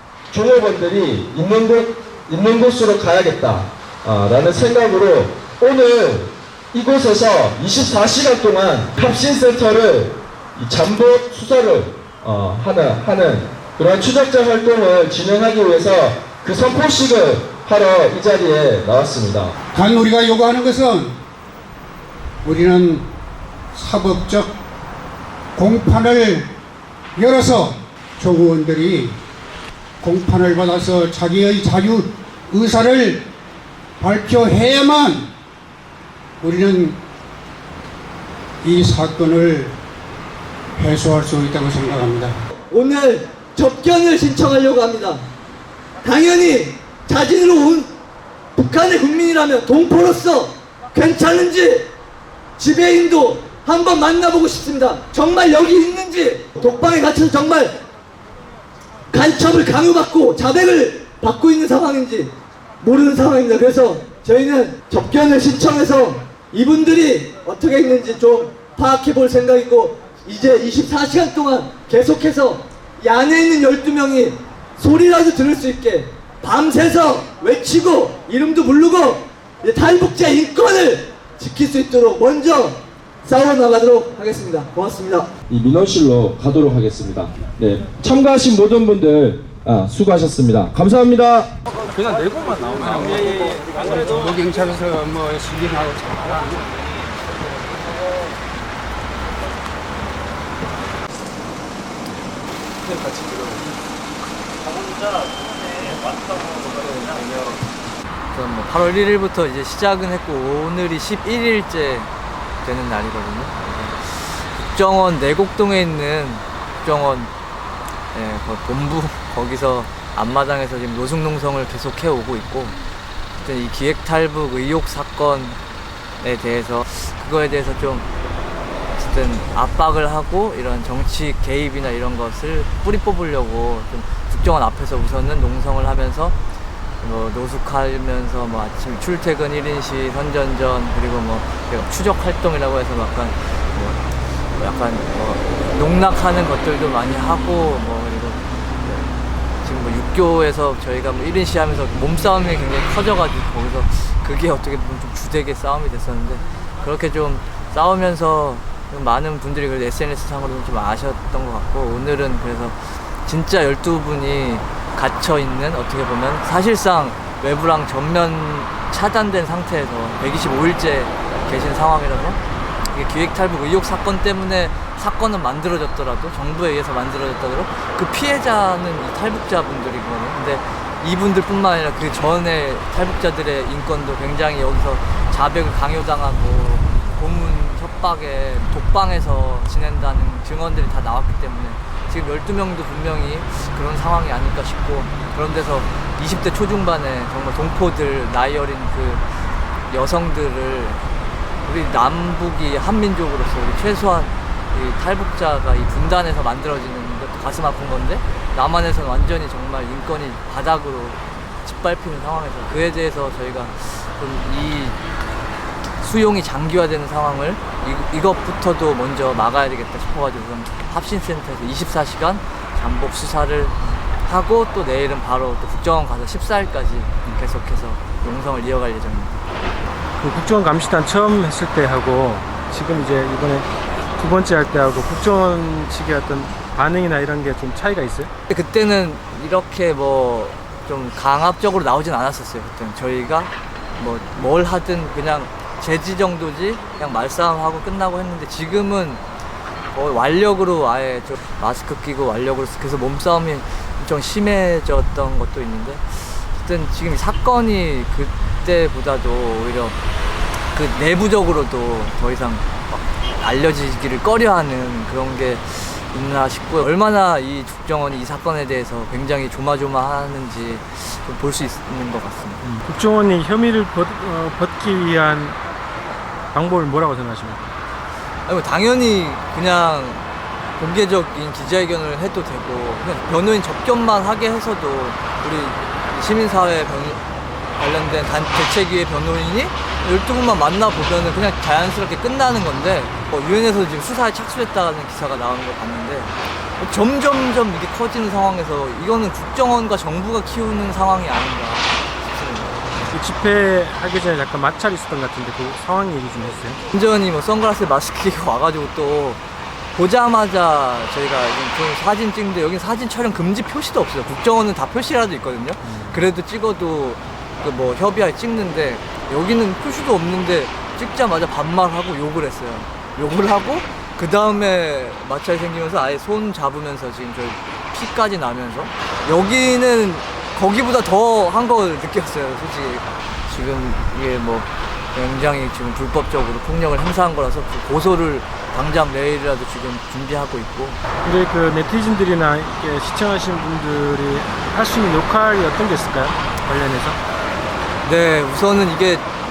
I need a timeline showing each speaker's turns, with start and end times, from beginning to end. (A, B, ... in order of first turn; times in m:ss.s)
0:00.3-0:19.5 A
0:19.7-0:21.1 B
0:22.4-0:23.1 B
0:23.7-0:24.6 B
0:25.6-0:26.5 B
0:27.1-0:29.2 B
0:30.0-0:33.2 B
0:34.0-0:35.3 B
0:36.4-0:37.0 B
0:38.6-0:39.8 B
0:40.8-0:42.3 B
0:42.7-0:45.2 C
0:46.0-0:47.9 C
0:48.6-0:51.9 C
0:52.6-0:57.8 C
0:59.1-1:25.3 C
1:25.5-1:31.5 A
1:31.9-1:34.0 D
1:32.8-1:36.6 B
1:46.3-1:46.7 C
1:46.8-1:47.6 E
1:48.3-1:52.1 E
1:52.6-1:57.3 E
1:58.1-2:02.8 E
2:03.4-2:05.6 E
2:06.2-2:08.1 E
2:08.9-2:16.3 E
2:17.0-2:24.0 E
2:24.5-3:19.2 E
3:19.9-3:21.0 E
3:21.6-3:35.0 E
3:35.9-3:43.7 E
3:44.2-3:49.4 E
3:50.2-3:58.3 F
3:58.5-4:09.2 E
4:09.9-4:20.0 E
4:20.7-4:32.6 E
4:32.6-4:35.6 F
4:36.5-4:37.6 F
4:38.4-4:40.2 E
4:40.8-4:47.2 E
4:47.8-5:02.7 E
5:03.1-5:06.8 F
5:06.9-5:09.4 E
5:09.9-5:41.0 E
5:15.8-5:16.2 F
5:41.2-5:47.2 F
5:48.0-5:49.2 E